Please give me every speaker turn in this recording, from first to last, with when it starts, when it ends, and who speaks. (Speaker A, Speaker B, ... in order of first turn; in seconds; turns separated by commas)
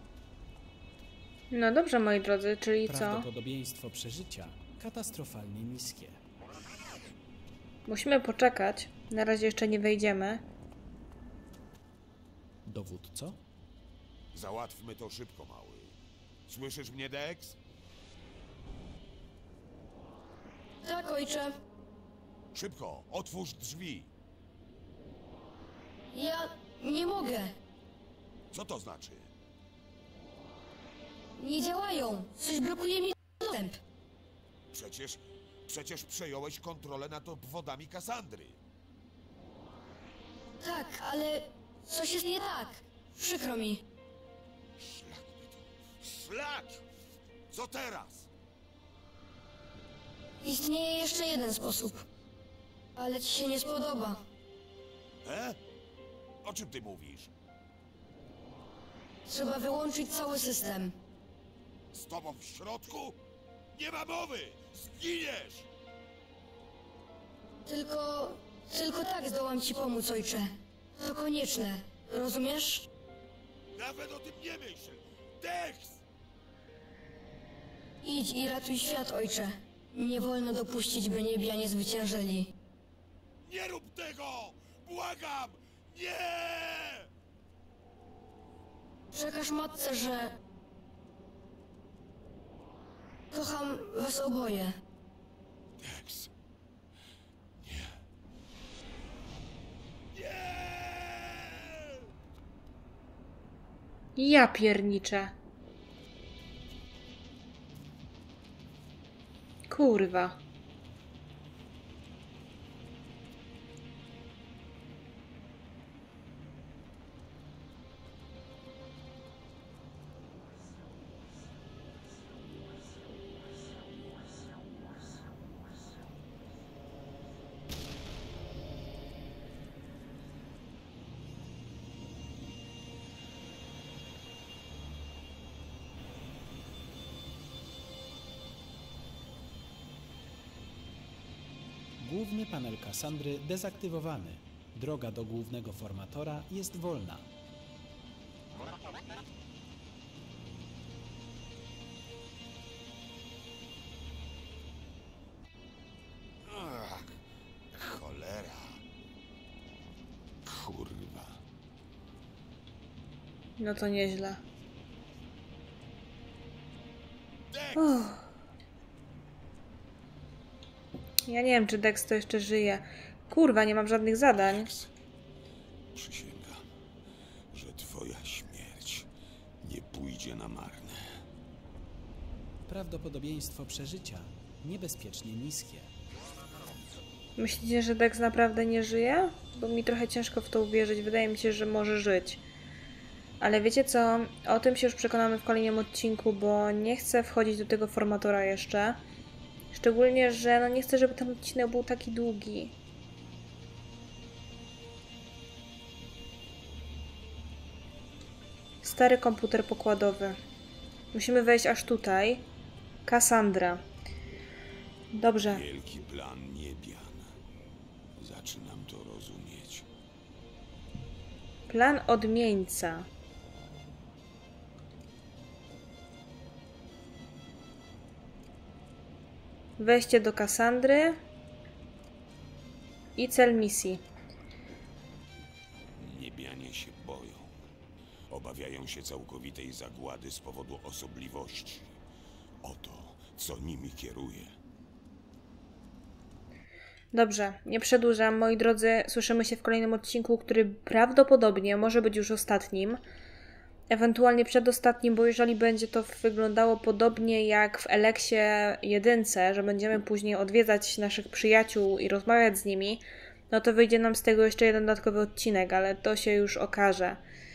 Speaker A: 1.5-3.3, Speaker B: 2.9-6.2, Speaker A: 7.9-10.4, Speaker B: 12.6-13.4, Speaker C: 14.3-15.9, Speaker C: 16.5-17.6, Speaker D: 20.8-21.6, Speaker C: 22.5-24.1, Speaker D: 26.1-27.6, Speaker C: 28.5-29.3, Speaker D: 31.4-33.8, Speaker C: 34.7-38.6, Speaker D: 40.6-43.8, Speaker C: 44.8-46.8, Speaker C: 47.5-48.3, Speaker D: 50.4-52.0, Speaker D: 53.0-54.2, Speaker C: 55.2-55.6, Speaker C: 56.4-57.3, Speaker D: 59.2-61.0, Speaker C: 61.9-63.2, Speaker C: 63.7-65.7, Speaker D: 67.7-72.9, Speaker C: 73.7-76.0, Speaker D: 78.0-82.5, Speaker C: 83.4-87.1, Speaker D: 89.1-90.4, Speaker D: 93.3-94.8, Speaker C: 95.8-96.3, Speaker C: 97.6-98.0, Speaker C: 100.1-101.9, Speaker A: 104.2-105.3, Speaker A: 109.7-110.4, Speaker B: 142.0-147.3, Speaker C: 156.4-157.2, Speaker C: 157.7-158.8, Speaker C: 160.4-161.4, Speaker A: 163.6-164.4, Speaker C: 167.5-168.1, Speaker A: 167.8-168.2, Speaker A: 171.3-174.7, Speaker C: 174.5-174.9, Speaker C: 175.9-176.6, Speaker C: 177.5-179.1, Speaker C: 179.6-181.2, Speaker B: 182.7-185.9, Speaker A: 187.4-192.4, Speaker A: 193.4-199.0, Speaker A: 199.7-202.7, Speaker A: 208.8-210.4, Speaker A: 211.1-212.4, Speaker A: 213.1-213.8, Speaker A: 215.1-215.6, Speaker C: 215.5-217.3, Speaker C: 218.2-219.8, Speaker A: 221.7-223.1, Speaker A: 229.8-231.2, Speaker A: 233.2-234.0, Speaker C: 236.0-237.5, Speaker C: 238.3-241.9, Speaker C: 242.6-244.5, Speaker A: 247.1-253.0, Speaker A: 253.9-267.2